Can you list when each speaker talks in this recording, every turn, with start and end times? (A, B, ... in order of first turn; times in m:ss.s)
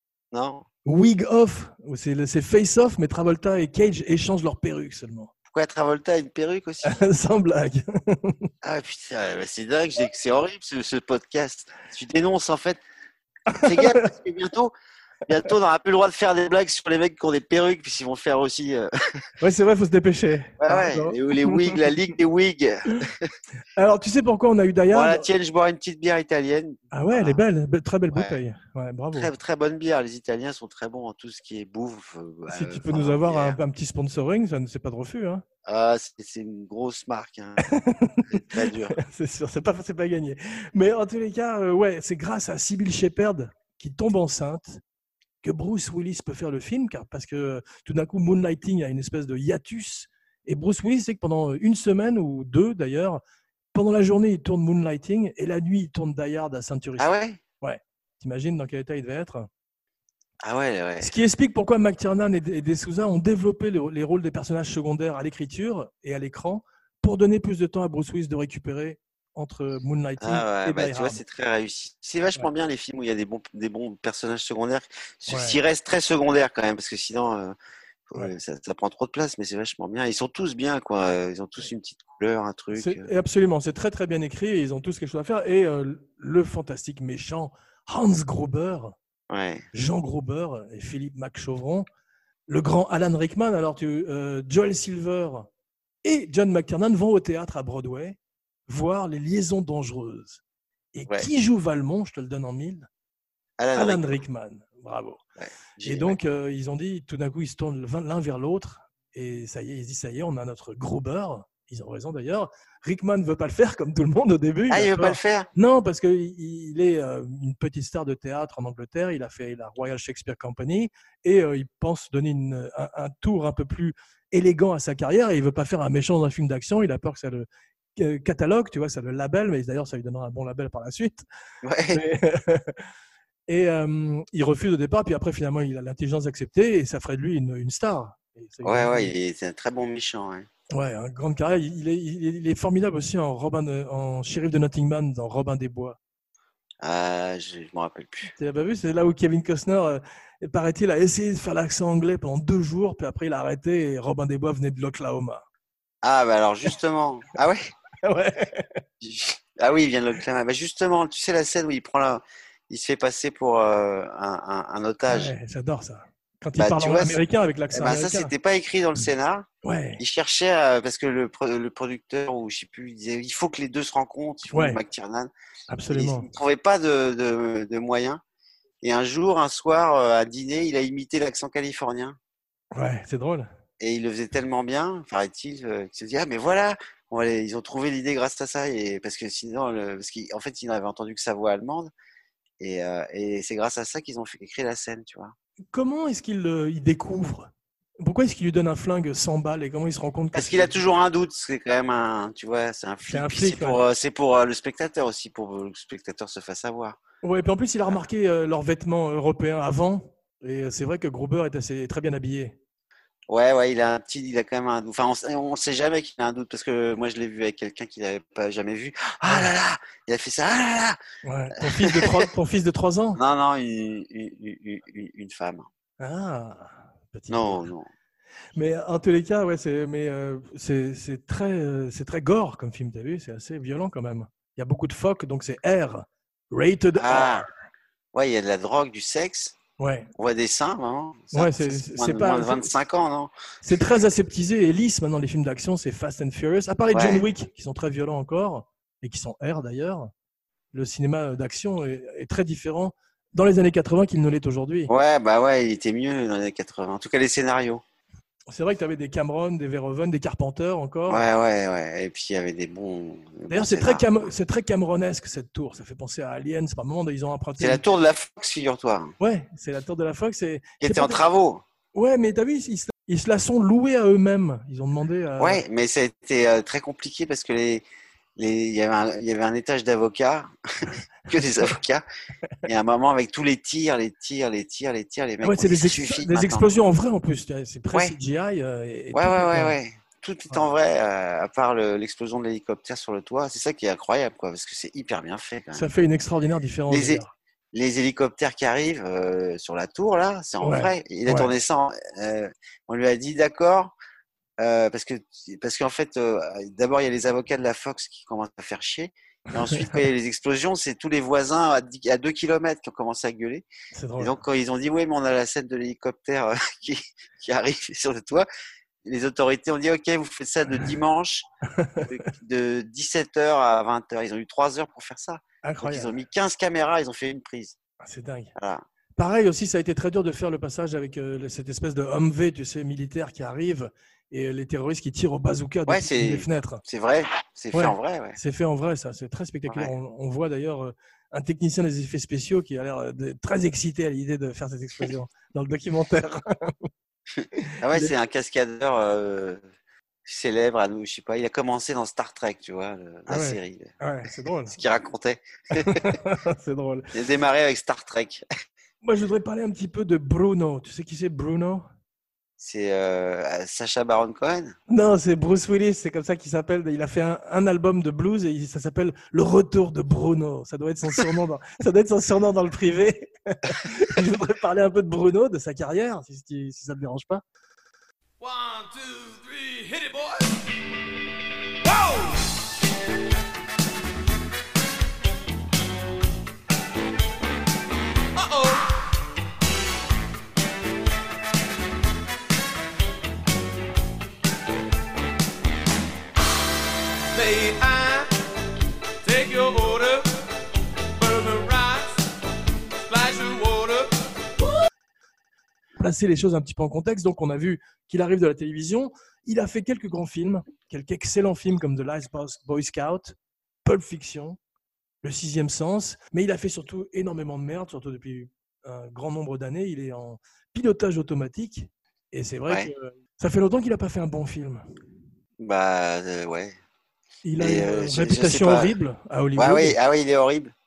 0:00.3-0:00.7 A
0:00.8-0:05.3 B
0:05.5-0:07.0 A
0:06.8-0:08.5 B
0:08.6-0:12.8 A
0:13.5-0:14.1 B
0:13.6-0:14.7 A
0:15.3-0:18.9 A
0:19.4-0:21.9 B
0:20.6-0:23.3 A
0:23.8-0:25.3 B
0:24.9-0:27.4 A
0:26.9-0:29.3 B
0:28.1-0:28.4 A
0:29.1-0:33.6 A
0:32.5-0:35.4 B
0:35.7-0:37.7 A
0:37.7-0:44.8 B
0:38.3-0:39.0 A
0:45.4-0:53.2 B
0:53.7-0:57.1 B
0:57.0-0:57.4 A
0:57.6-0:59.5 B
1:00.4-1:01.1 A
1:01.0-1:11.2 B
1:10.2-1:17.6 A
1:15.3-1:15.6 B
1:18.1-1:23.1 A
1:22.7-1:29.0 B
1:29.3-1:29.6 A
1:29.7-1:31.9 B
1:32.5-1:35.5 B
1:36.0-1:38.2 B
1:38.7-1:40.4 B
1:40.9-1:42.9 B
1:43.6-1:44.2 A
1:43.8-1:45.2 B
1:45.4-1:46.2 A
1:45.8-2:07.5 B
1:54.7-1:55.5 A
2:08.0-2:11.2 B
2:11.6-2:12.0 A
2:11.9-2:12.8 B
2:13.5-2:19.1 B
2:18.6-2:20.5 A
2:20.7-2:26.0 B
2:26.8-2:28.3 A
2:28.3-2:35.4 B
2:36.0-2:37.7 A
2:38.0-2:38.8 B
2:39.0-2:45.3 A
2:45.1-2:48.3 B
2:46.6-2:47.2 A
2:47.7-2:49.5 A
2:49.6-2:50.0 B
2:50.0-2:55.3 A
2:54.5-2:54.8 B
2:55.7-2:56.3 B
2:55.9-2:58.2 A
2:58.8-3:02.2 A
3:02.7-3:03.5 B
3:03.8-3:11.9 A
3:12.6-3:15.4 A
3:15.7-3:17.5 B
3:18.0-3:20.8 B
3:20.3-3:27.0 A
3:23.1-3:23.8 B
3:27.2-3:32.6 B
3:33.3-3:41.0 A
3:39.2-3:39.5 B
3:41.2-3:43.2 B
3:41.6-3:42.3 A
3:43.2-3:45.7 A
3:46.0-3:47.6 B
3:47.3-3:47.9 A
3:48.6-3:57.5 B
3:57.0-3:57.5 A
3:58.1-3:59.6 A
3:59.8-4:00.1 B
4:00.2-4:03.3 A
4:01.3-4:02.7 B
4:03.6-4:10.1 B
4:06.9-4:07.3 A
4:10.7-4:14.9 B
4:14.9-4:17.8 A
4:18.5-4:21.3 B
4:21.1-4:24.2 A
4:23.5-4:27.8 B
4:27.6-4:29.1 A
4:29.2-4:31.2 B
4:30.8-4:31.6 A
4:31.9-4:35.6 B
4:35.4-4:37.9 A
4:38.4-4:42.1 A
4:41.4-4:41.7 B
4:42.6-4:46.7 A
4:45.4-4:49.8 B
4:49.1-4:55.9 A
4:55.8-4:57.3 B
4:56.9-5:04.0 A
5:00.6-5:01.5 B
5:04.6-5:13.7 A
5:09.5-5:10.0 B
5:13.9-5:14.3 B
5:14.2-5:18.5 A
5:19.0-5:27.8 A
5:21.8-5:22.1 B
5:25.6-5:26.1 B
5:28.0-5:28.5 B
5:28.6-5:28.8 A
5:29.2-5:36.8 B
5:35.9-5:38.4 A
5:37.7-5:46.9 B
5:47.8-5:49.6 A
5:50.3-5:53.9 A
5:53.3-5:54.8 B
5:54.7-5:56.1 A
5:55.7-5:57.1 B
5:57.1-5:58.4 A
5:59.0-6:01.8 B
6:02.6-6:04.8 A
6:04.9-6:17.4 B
6:18.4-6:20.6 C
6:21.8-6:22.4 C
6:28.4-6:29.0 C
6:37.3-6:38.3 C
6:39.2-6:40.3 C
6:41.2-6:42.2 C
6:43.0-6:44.1 C
6:46.0-6:54.6 B
6:55.2-7:04.8 B
7:05.6-7:06.8 A
7:07.4-7:10.0 B
7:07.6-7:09.0 A
7:09.6-7:10.7 A